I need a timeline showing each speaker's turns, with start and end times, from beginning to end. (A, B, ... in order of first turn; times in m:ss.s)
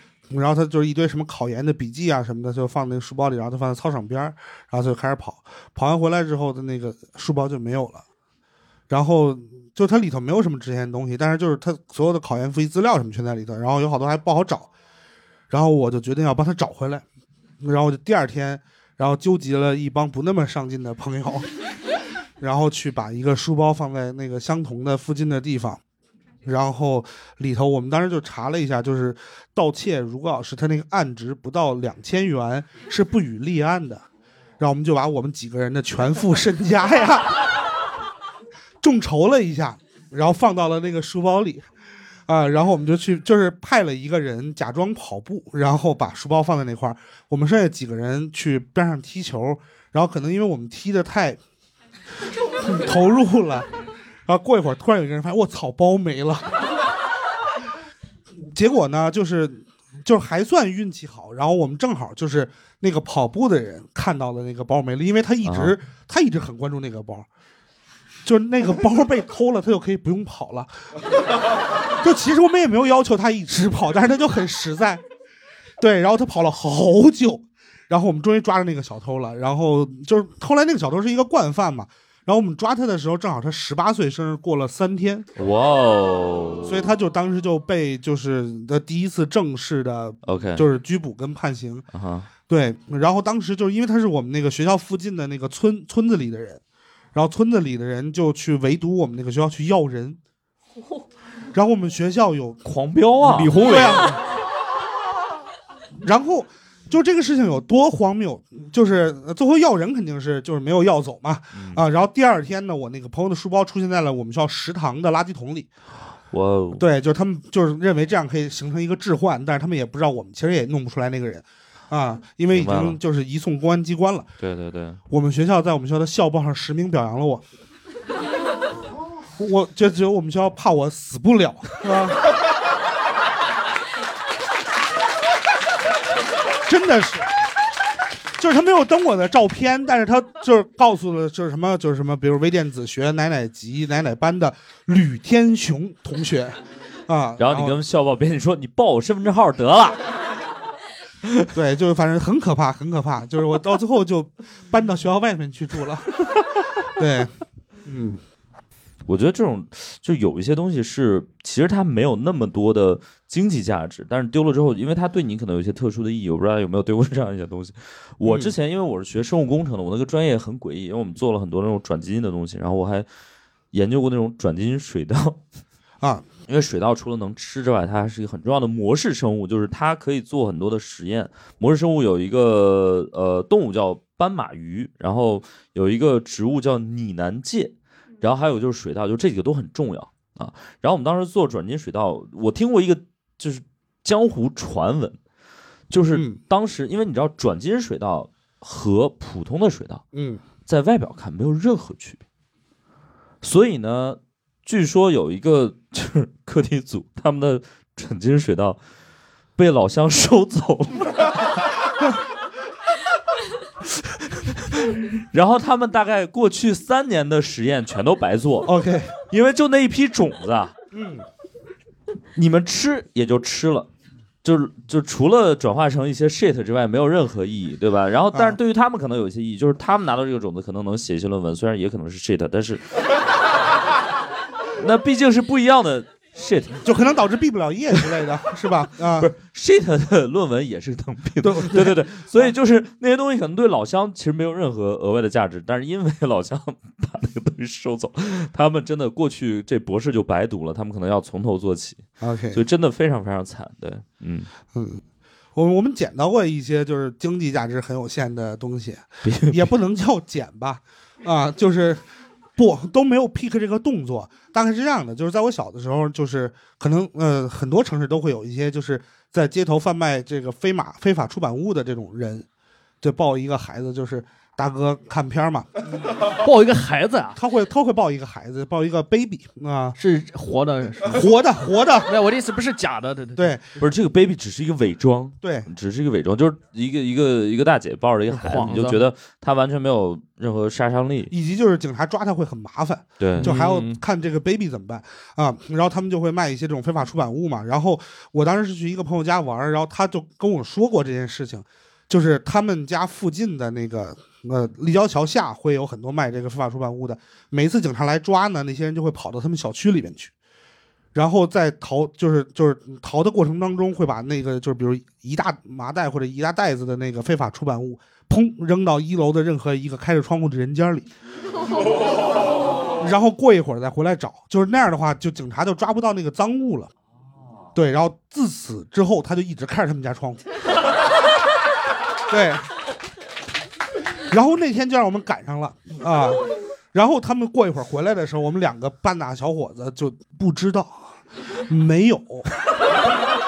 0:00.3-0:08.0 A
0:08.9-0:14.7 A
0:15.5-0:17.0 A
0:17.6-0:21.5 A
0:22.4-0:25.8 A
0:26.4-0:34.0 A
0:34.6-0:37.5 A
0:38.8-0:41.6 A
0:42.3-0:51.4 A
0:52.6-0:53.7 A
0:54.2-0:56.6 A
0:58.5-1:07.3 A
1:05.4-1:05.8 B
1:08.2-1:10.7 A
1:11.9-1:15.0 A
1:15.8-1:25.2 A
1:25.4-1:26.9 B
1:26.6-1:31.9 A
1:30.2-1:30.6 B
1:31.9-1:32.3 B
1:32.5-1:36.6 A
1:37.1-1:40.2 A
1:41.5-1:42.6 A
1:42.6-1:43.9 B
1:43.2-1:44.2 C
1:43.6-1:44.2 A
1:46.0-1:55.7 A
1:51.5-1:51.8 B
1:56.3-1:56.9 B
1:56.7-2:04.3 A
2:02.5-2:03.0 B
2:04.4-2:05.0 B
2:05.1-2:07.4 A
2:09.4-2:12.3 A
2:16.6-2:17.3 A
2:18.4-2:27.8 A
2:27.4-2:30.0 B
2:31.5-2:36.2 A
2:37.0-2:37.3 A
2:37.9-2:38.2 A
2:39.1-2:53.1 B
2:48.2-2:48.5 A
2:53.7-2:55.4 B
2:56.0-2:56.2 A
2:56.5-3:15.2 B
3:15.9-3:20.0 B
3:16.1-3:16.4 A
3:20.1-3:20.4 A
3:20.7-3:22.2 B
3:23.4-3:28.8 B
3:29.6-3:31.7 B
3:33.9-3:38.7 B
3:38.6-3:39.2 A
3:39.3-3:40.7 B
3:40.9-3:41.2 A
3:42.4-3:43.9 B
3:44.4-3:53.0 B
3:48.3-3:48.6 A
3:54.8-3:56.9 B
3:56.8-3:59.3 A
3:59.2-4:14.5 B
4:01.4-4:02.4 A
4:12.2-4:12.6 A
4:14.7-4:15.0 A
4:15.5-4:22.0 A
4:19.2-4:19.7 B
4:22.6-4:32.4 A
4:33.0-4:35.7 A
4:36.4-4:37.4 C
4:37.3-4:40.0 A
4:40.0-4:41.2 C
4:41.1-4:42.1 A
4:42.0-4:43.6 C
4:43.8-4:51.3 B
4:45.4-4:45.7 A
4:48.3-4:49.0 C
4:51.3-5:10.3 A
4:53.2-4:53.6 B
4:53.4-4:54.0 C
5:11.1-5:21.1 A
5:23.0-5:26.9 A
5:27.7-5:30.4 A
5:32.3-5:32.7 A
5:34.3-5:41.2 A
5:41.7-5:42.5 A